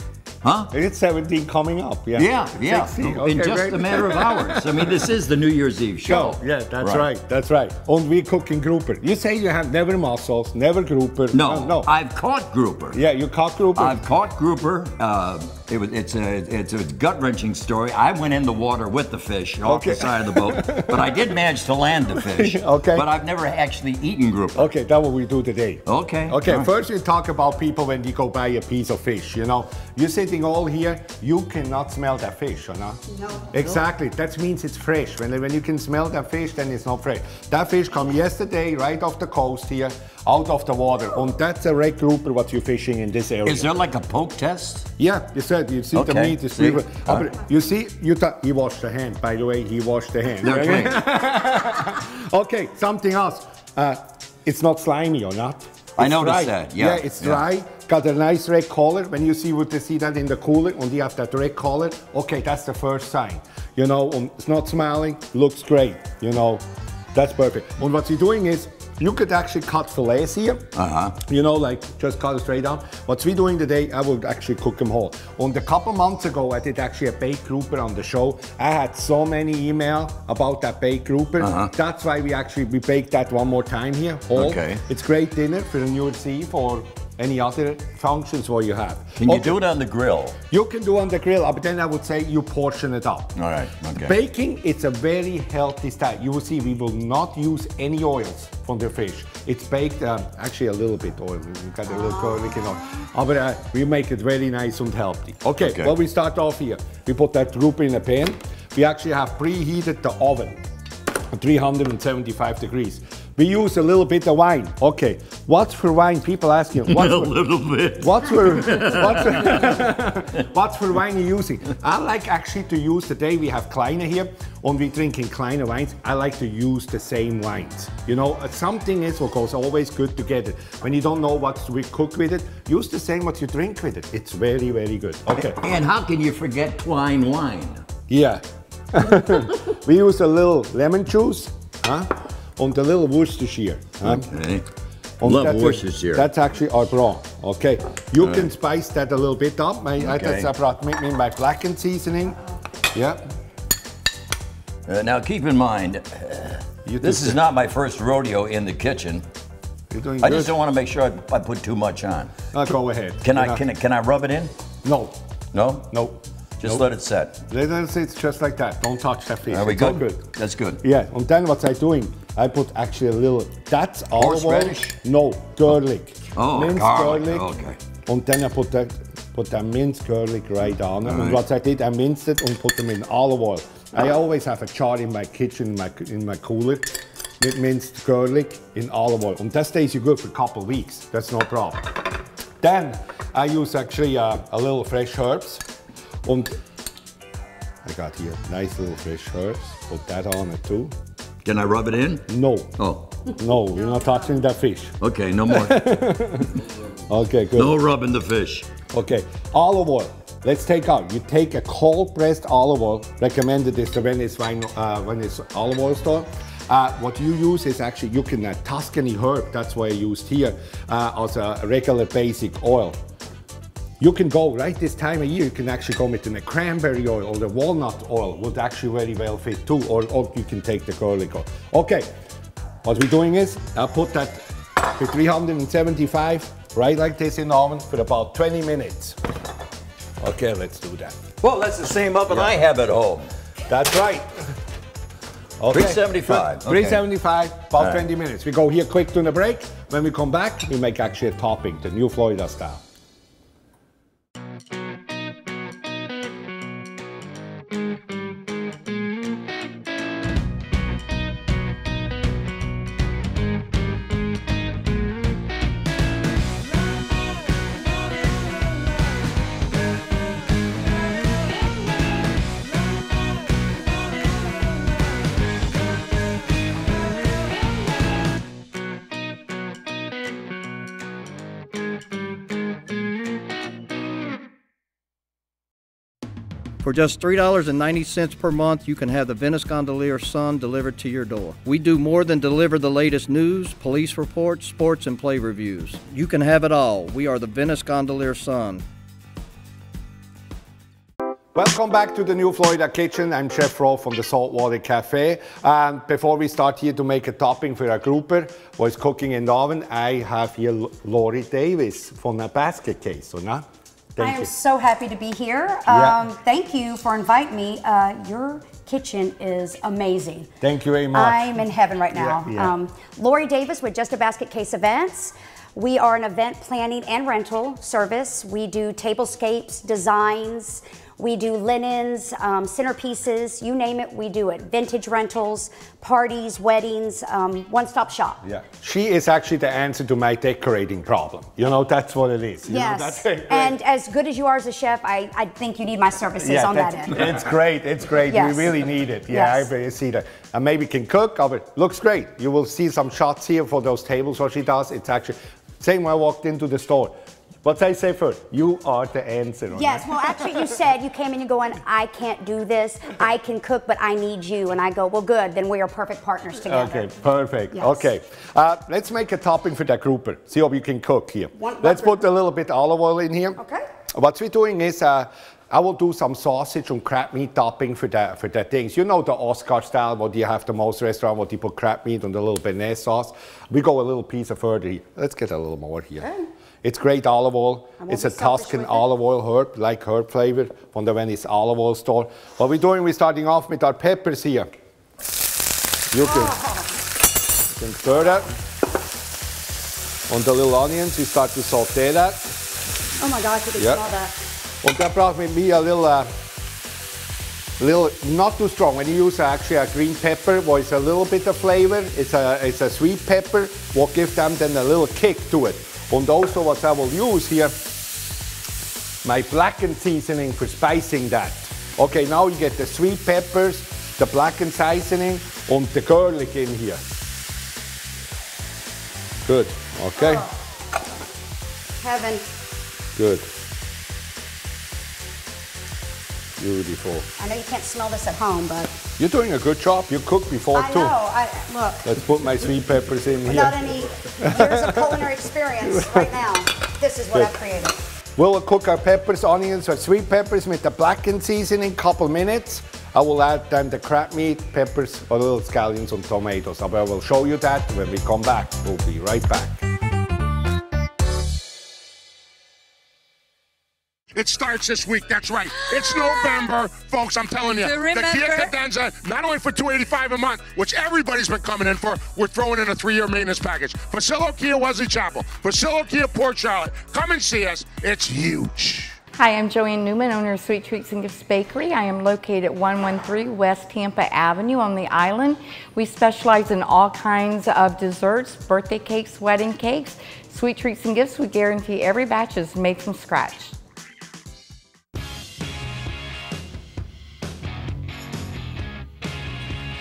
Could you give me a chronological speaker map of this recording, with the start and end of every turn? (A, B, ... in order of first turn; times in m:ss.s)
0:00.4-0:00.7 A
0:00.7-0:05.2 B
0:02.1-0:07.1 A
0:06.0-0:11.9 B
0:11.3-0:13.0 A
0:12.9-0:14.0 B
0:13.7-0:24.7 A
0:19.6-0:21.3 B
0:22.2-0:23.1 B
0:24.5-0:33.0 B
0:25.8-0:26.7 A
0:33.1-0:33.5 C
0:33.5-0:43.7 B
0:43.4-0:44.9 A
0:45.0-1:10.7 B
0:45.9-0:47.3 A
0:50.4-0:51.0 A
0:56.0-0:57.4 A
1:10.7-1:11.2 A
1:11.2-1:29.6 B
1:21.4-1:21.7 A
1:24.3-1:24.8 A
1:29.2-1:30.4 A
1:30.5-1:33.4 B
1:33.4-1:34.2 A
1:34.0-1:50.6 B
1:45.5-1:45.9 A
1:51.3-1:57.4 B
1:56.9-1:59.9 A
1:58.0-2:15.6 B
2:15.3-2:17.8 A
2:18.1-2:24.3 B
2:24.0-2:24.6 A
2:25.2-2:32.4 B
2:25.2-2:26.3 A
2:28.2-2:28.5 A
2:30.0-2:30.5 A
2:32.9-2:33.2 B
2:34.9-2:39.2 A
2:36.8-2:37.4 B
2:39.9-2:40.5 B
2:40.2-2:42.3 A
2:42.5-2:43.6 B
2:43.2-2:44.5 A
2:44.8-2:45.1 B
2:45.5-2:45.9 A
2:45.9-2:46.9 B
2:46.6-2:47.4 A
2:47.5-2:50.3 B
2:49.5-2:50.8 A
2:50.8-2:57.5 B
2:54.2-2:55.0 A
2:56.3-2:57.8 A
2:58.0-3:15.6 B
3:01.0-3:01.4 A
3:16.2-3:16.6 B
3:17.8-3:20.9 B
3:21.4-3:22.3 A
3:22.3-3:25.0 B
3:22.8-3:23.1 A
3:25.0-3:26.0 A
3:25.5-3:26.6 B
3:27.1-3:27.8 B
3:27.5-3:28.7 A
3:28.9-3:43.0 B
3:44.0-3:52.1 B
3:52.8-3:59.2 B
4:00.2-4:01.2 B
4:01.4-4:03.3 A
4:02.3-4:02.6 B
4:03.7-4:04.6 B
4:05.6-4:12.8 B
4:05.7-4:07.0 A
4:07.8-4:08.0 A
4:46.8-4:58.8 D
5:01.5-5:14.5 B
5:14.2-5:20.5 C
5:15.9-5:16.2 B
5:20.6-5:21.6 B
5:21.1-5:38.4 C
5:22.1-5:22.7 B
5:38.4-5:43.8 B
5:42.7-5:47.5 C
5:46.4-6:00.3 B
5:48.3-5:48.7 C
5:49.3-5:49.7 C
5:59.7-6:07.1 C
6:06.6-6:13.6 B
6:07.7-6:08.0 C
6:11.6-6:12.2 C
6:13.6-6:13.9 C
6:14.1-6:26.3 B
6:26.8-6:34.7 B
6:28.0-6:29.0 C
6:36.1-6:36.6 B
6:36.2-6:36.9 C
6:37.7-6:38.5 B
6:40.3-6:42.5 B
6:43.2-6:44.3 C
6:43.8-6:44.0 B
6:44.8-6:46.3 B
6:47.8-6:57.8 B
6:59.2-7:07.0 B
7:09.4-7:10.5 B
7:10.2-7:10.5 C
7:12.0-7:12.4 C
7:13.2-7:13.5 B
7:16.6-7:17.3 B
7:17.4-7:19.0 C
7:19.2-7:21.2 B
7:20.7-7:22.0 C
7:22.0-7:25.3 B
7:23.4-7:28.0 C
7:25.8-7:26.3 B
7:28.4-7:39.8 B
7:44.3-7:59.2 E
7:59.3-8:13.8 F